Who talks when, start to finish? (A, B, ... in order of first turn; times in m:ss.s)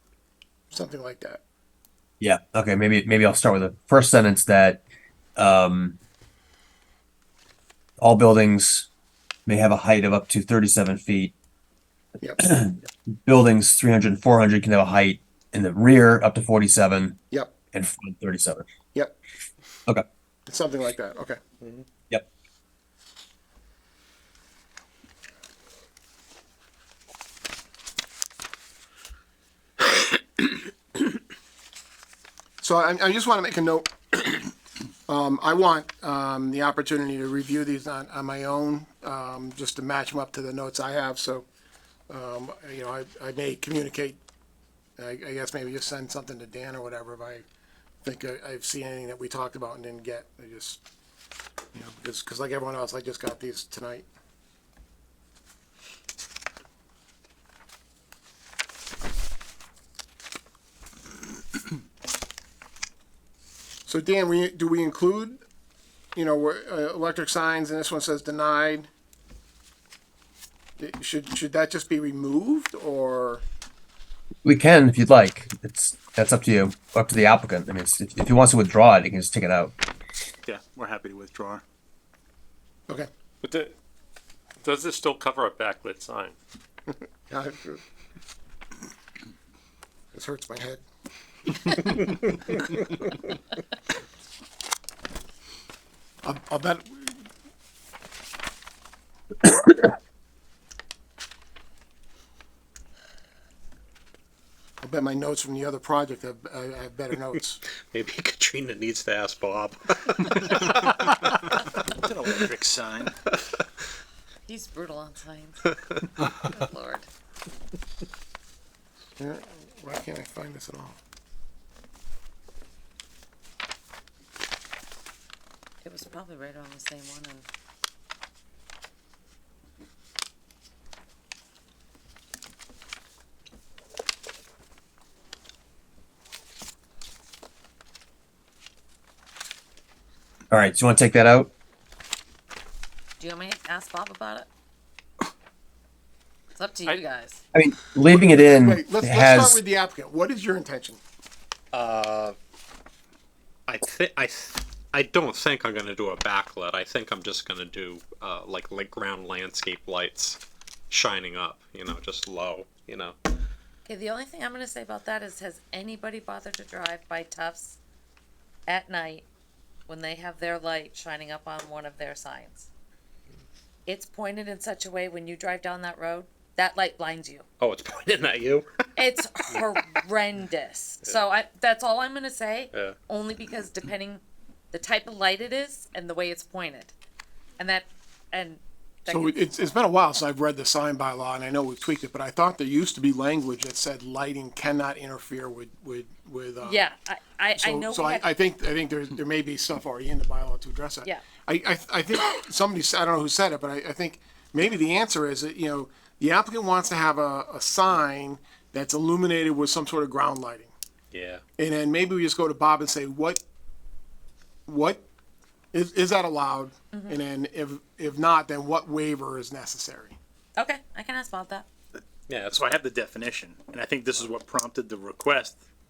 0:00.7-0:01.4 A
0:02.2-0:04.8 B
0:05.4-0:06.0 B
0:08.0-0:08.9 B
0:09.4-0:11.3 B
0:12.4-0:17.2 B
0:17.7-0:18.7 B
0:20.5-0:21.4 A
0:29.9-0:30.4 A
0:32.6-0:34.5 A
0:35.1-0:41.4 A
0:42.1-0:44.2 A
0:45.0-0:47.4 A
0:48.0-0:50.8 A
0:51.7-0:54.1 A
1:03.9-1:05.4 A
1:06.1-1:08.9 A
1:10.8-1:13.4 A
1:14.4-1:19.7 B
1:20.4-1:21.6 C
1:23.4-1:23.7 D
1:24.6-1:26.4 D
1:27.3-1:27.8 A
1:30.1-1:30.8 A
1:31.7-1:32.6 A
1:36.2-1:37.2 A
1:44.8-1:47.6 A
1:47.7-1:51.6 E
1:51.9-1:53.2 C
1:54.4-1:55.7 F
1:56.2-1:57.1 F
1:59.2-2:01.0 A
2:05.8-2:07.4 F
2:20.5-2:21.5 B
2:23.2-2:24.5 F
2:26.5-2:27.4 F
2:27.5-2:29.6 B
2:28.1-2:31.0 A
2:31.7-2:32.4 E
2:33.7-2:43.2 E
2:43.8-2:47.8 F
2:48.7-2:49.2 F
2:49.9-2:52.7 F
2:53.8-2:57.5 F
2:57.6-2:58.7 E
2:59.0-3:04.2 F
3:04.7-3:06.9 F
3:07.6-3:09.4 F
3:09.1-3:16.9 A
3:16.6-3:18.3 F
3:17.6-3:30.7 A
3:31.1-3:31.4 E
3:31.6-3:33.4 A
3:34.7-3:35.0 A
3:35.7-3:40.2 A
3:36.9-3:37.2 F
3:40.6-3:41.7 F
3:41.9-3:45.6 C
3:42.3-3:42.6 E